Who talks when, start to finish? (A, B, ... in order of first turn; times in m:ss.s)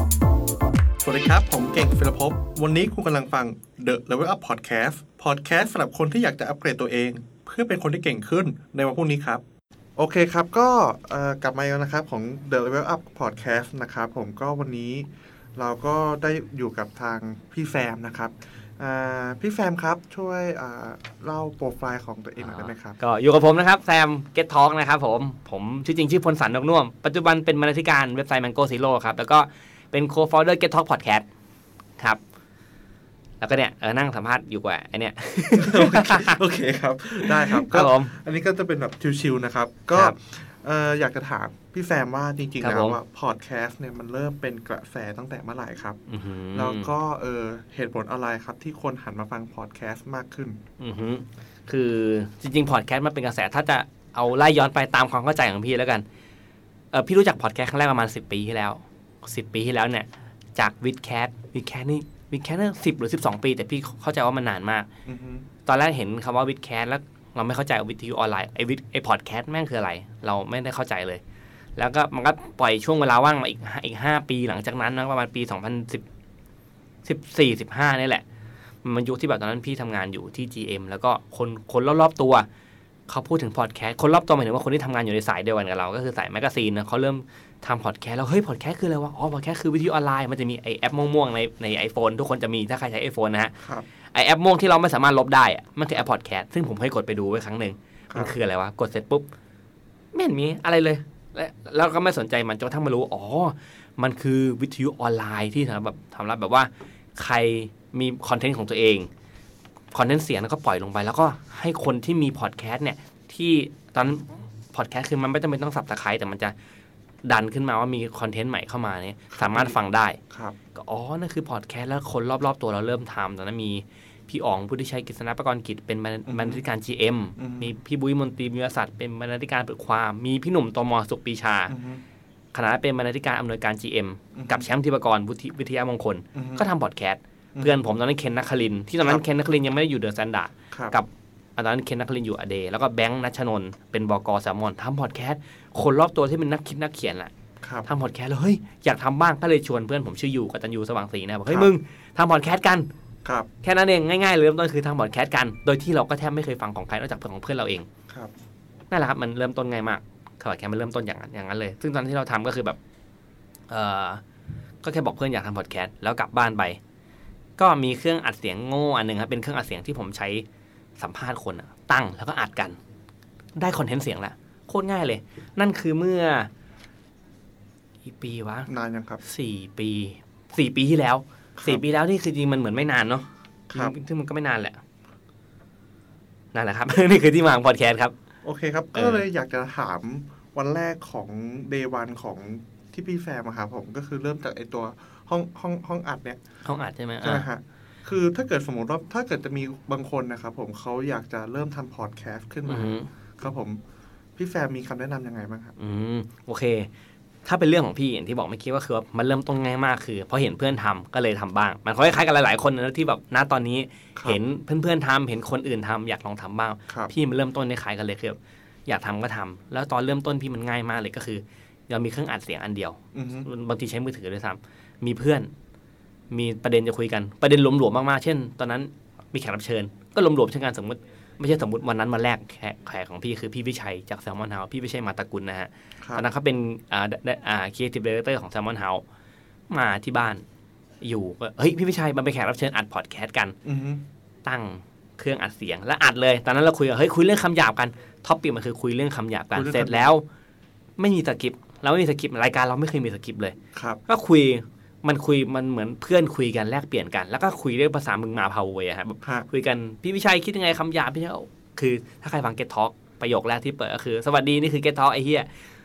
0:01.0-0:09.4 A
0:10.0-0:23.0 A
0:22.4-0:31.2 B
0:33.4-0:36.4 B
0:35.6-0:46.0 A
0:37.2-0:38.1 B
0:42.6-0:43.0 B
0:46.1-0:46.9 B
0:46.5-0:50.6 A
0:50.8-0:56.0 B
0:56.9-1:04.9 B
1:05.0-1:05.4 A
1:05.6-1:11.2 B
1:11.8-1:16.0 B
1:17.0-1:18.2 B
1:18.8-1:22.5 B
1:23.1-1:33.5 B
1:33.6-1:33.8 A
1:34.1-1:39.3 B
1:40.1-1:49.1 B
1:49.9-1:56.5 B
1:57.2-2:00.2 B
1:59.3-1:59.8 A
2:00.3-2:00.6 A
2:00.7-2:11.8 B
2:06.3-2:06.6 A
2:07.4-2:07.7 A
2:11.7-2:12.0 A
2:12.5-2:27.3 B
2:14.3-2:14.7 A
2:16.3-2:16.6 A
2:27.6-2:27.9 A
2:27.8-2:32.9 B
2:33.6-2:37.9 B
2:38.9-2:42.8 B
2:43.7-2:44.2 B
2:44.8-2:46.8 B
2:47.6-2:50.4 B
2:51.0-2:52.8 B
2:53.6-2:56.5 B
2:58.0-2:58.7 B
2:58.7-2:59.2 A
2:59.2-3:04.8 B
3:01.6-3:01.8 A
3:06.5-3:08.1 B
3:08.4-3:16.4 A
3:08.9-3:09.2 B
3:16.6-3:17.5 B
3:17.2-3:23.8 A
3:22.6-3:23.1 B
3:24.4-3:25.7 A
3:25.8-3:26.9 B
3:27.4-3:45.5 B
3:43.1-3:43.5 A
3:46.3-3:59.0 B
3:56.0-3:56.2 A
3:59.7-4:00.4 B
4:01.0-4:03.6 B
4:03.6-4:04.0 A
4:04.4-4:10.2 B
4:09.5-4:10.1 A
4:11.0-4:25.5 B
4:13.7-4:14.0 A